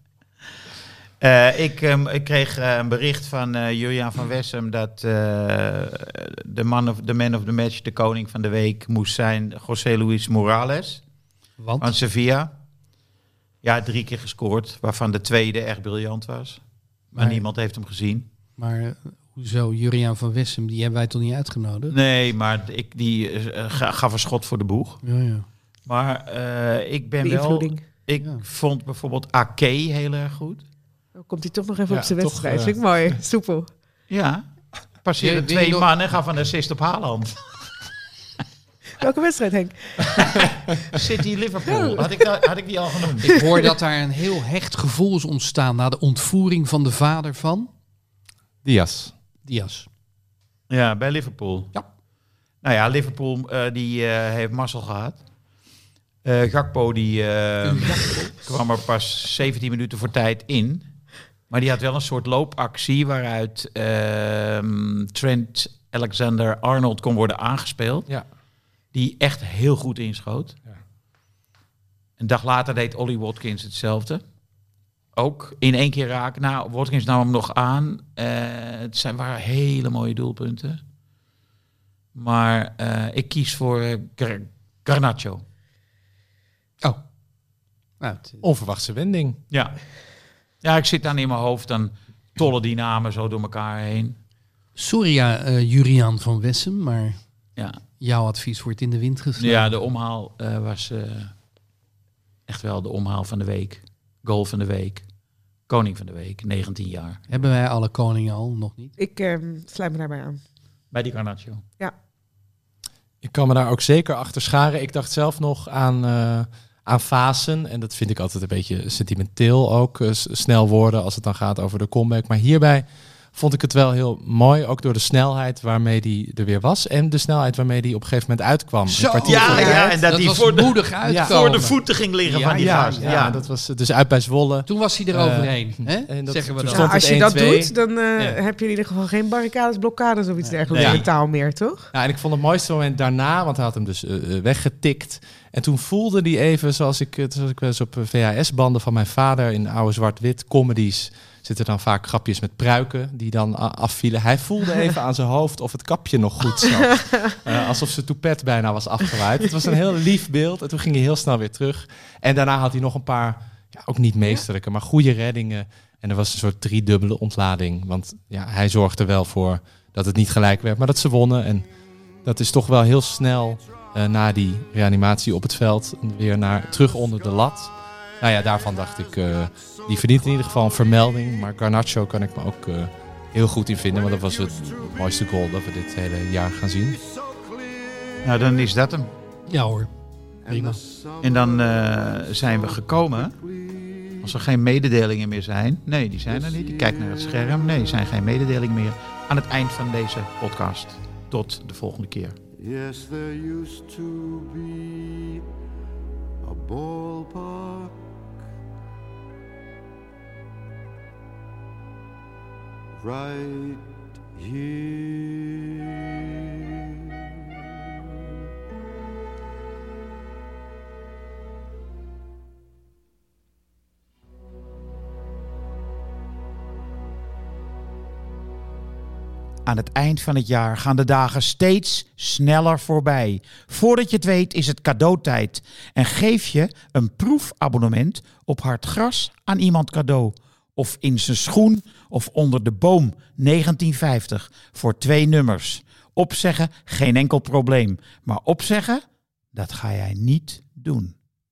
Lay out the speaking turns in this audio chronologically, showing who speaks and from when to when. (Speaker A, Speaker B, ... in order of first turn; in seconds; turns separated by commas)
Speaker A: 1.2-11.0, Speaker B: 11.6-11.9, Speaker A: 11.8-12.5, Speaker A: 13.6-16.6, Speaker A: 17.1-18.3, Speaker B: 17.2-17.4, Speaker B: 18.6-21.9, Speaker A: 21.9-25.0, Speaker B: 25.0-25.4, Speaker A: 25.9-30.6, Speaker C: 27.2-27.8, Speaker B: 28.2-28.4, Speaker C: 31.2-33.7, Speaker D: 31.9-32.8, Speaker A: 34.1-34.4, Speaker A: 35.0-37.4, Speaker B: 35.2-35.9, Speaker C: 39.0-40.5, Speaker A: 40.9-43.4, Speaker C: 41.7-42.1, Speaker B: 43.2-47.7, Speaker D: 48.6-49.1, Speaker B: 49.5-49.9, Speaker A: 50.7-51.7, Speaker A: 52.6-55.2, Speaker A: 56.2-60.9, Speaker B: 57.6-58.4, Speaker A: 61.5-68.1, Speaker A: 68.9-70.5, Speaker A: 72.2-74.2, Speaker A: 75.2-80.8, Speaker A: 82.1-85.4, Speaker B: 88.0-88.4, Speaker D: 88.4-89.4, Speaker A: 89.5-89.8, Speaker A: 90.6-94.2, Speaker B: 94.8-97.2, Speaker B: 98.0-99.7, Speaker A: 99.4-101.3, Speaker A: 102.5-105.0, Speaker A: 105.7-107.2, Speaker B: 107.3-109.0, Speaker C: 109.0-110.4, Speaker A: 110.9-111.6, Speaker D: 113.2-129.7, Speaker B: 128.9-133.2, Speaker A: 129.2-133.4, Speaker C: 129.5-129.9, Speaker D: 131.1-131.4, Speaker D: 132.6-138.4, Speaker B: 134.7-136.9, Speaker C: 136.7-141.9, Speaker A: 140.7-141.1, Speaker D: 140.8-141.1, Speaker D: 141.9-171.7, Speaker D: 172.2-187.0, Speaker E: 184.3-185.0, Speaker E: 186.9-188.4, Speaker A: 188.2-189.1, Speaker B: 189.5-189.9, Speaker E: 190.4-194.3, Speaker B: 190.5-190.8, Speaker A: 191.2-193.3, Speaker A: 194.2-202.4, Speaker E: 196.3-198.1, Speaker E: 202.6-205.4, Speaker E: 206.4-208.0, Speaker E: 213.0-217.2, Speaker A: 229.7-249.0, Speaker A: 249.5-251.1